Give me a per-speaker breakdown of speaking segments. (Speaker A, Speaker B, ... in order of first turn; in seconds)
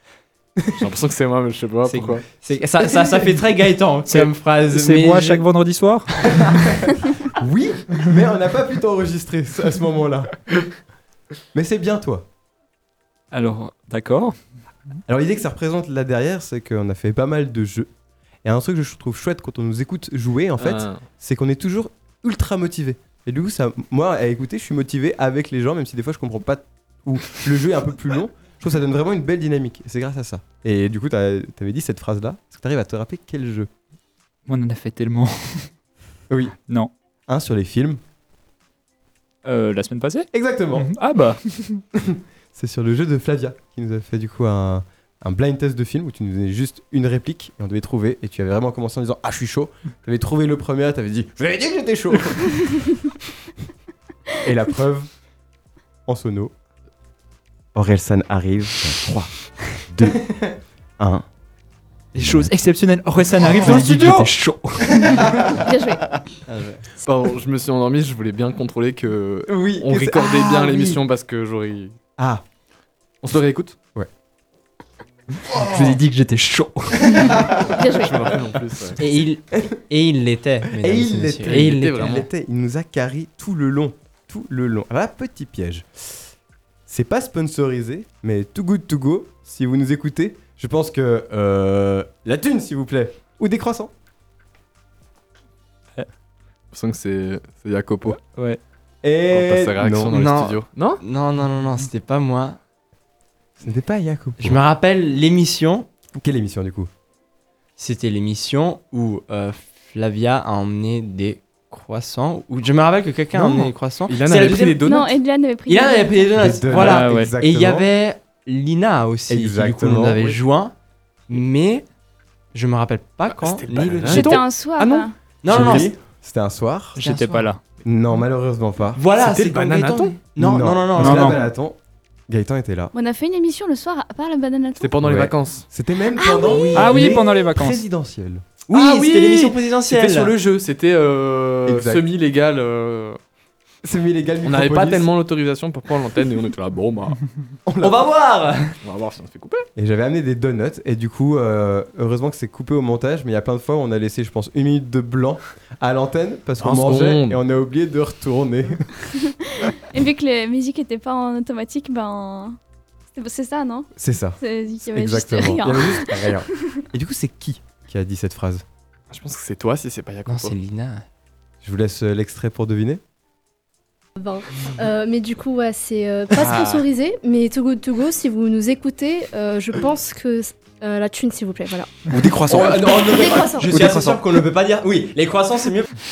Speaker A: 0.7-2.2, 20.6-21.0, 63.7-64.0, 67.0-72.0, 73.2-73.8, 77.8-79.0, 81.5-82.3, 96.7-98.2, 99.3-101.0, 113.3-115.1, 123.3-125.9, 129.2-130.2, 134.8-135.6, 138.7-143.2, 144.4-147.2, 148.8-149.7, 156.6-157.4, 169.1-170.6, 176.4-176.8
Speaker B: 1.9-5.4, 66.5-66.8, 79.0-82.2, 100.1-102.6, 104.4-105.9, 107.8-114.8, 115.7-120.7, 121.3-121.9, 122.5-124.4, 125.4-125.9, 127.0-127.5, 128.9-131.4, 138.7-140.3, 147.8-148.8, 170.3-171.0, 182.5-185.9
Speaker C: 4.1-6.8, 13.3-14.3, 34.5-35.7, 39.4-41.8, 62.1-65.4, 75.5-77.5, 98.2-98.6, 116.7-117.3, 127.0-127.6, 131.0-131.4, 136.7-137.8, 183.8-184.0
Speaker D: 7.3-10.4, 11.5-12.3, 15.1-17.9, 18.4-33.7, 36.3-36.5, 37.3-38.0, 40.3-40.9, 42.0-53.0, 54.4-55.1, 56.0-56.5, 57.7-61.2, 62.2-62.5, 63.5-64.2, 65.0-66.2, 69.5-71.0, 72.2-72.4, 75.5-76.0, 77.0-77.8, 80.7-86.3, 86.9-93.9, 99.0-100.1, 103.6-104.6, 106.1-106.9, 116.3-117.9, 119.3-120.2, 125.5-127.0, 127.8-129.0, 129.9-131.8, 132.3-132.9, 135.0-138.5, 141.6-142.1, 143.8-145.1, 147.7-148.0, 149.8-158.9, 163.9-168.6, 171.6-173.0, 182.1-184.2
Speaker E: 65.6-66.0, 77.8-78.2, 114.8-116.4, 124.1-125.1, 132.9-134.9, 136.2-136.9, 159.5-162.6, 163.1-166.8
Speaker F: 174.2-183.7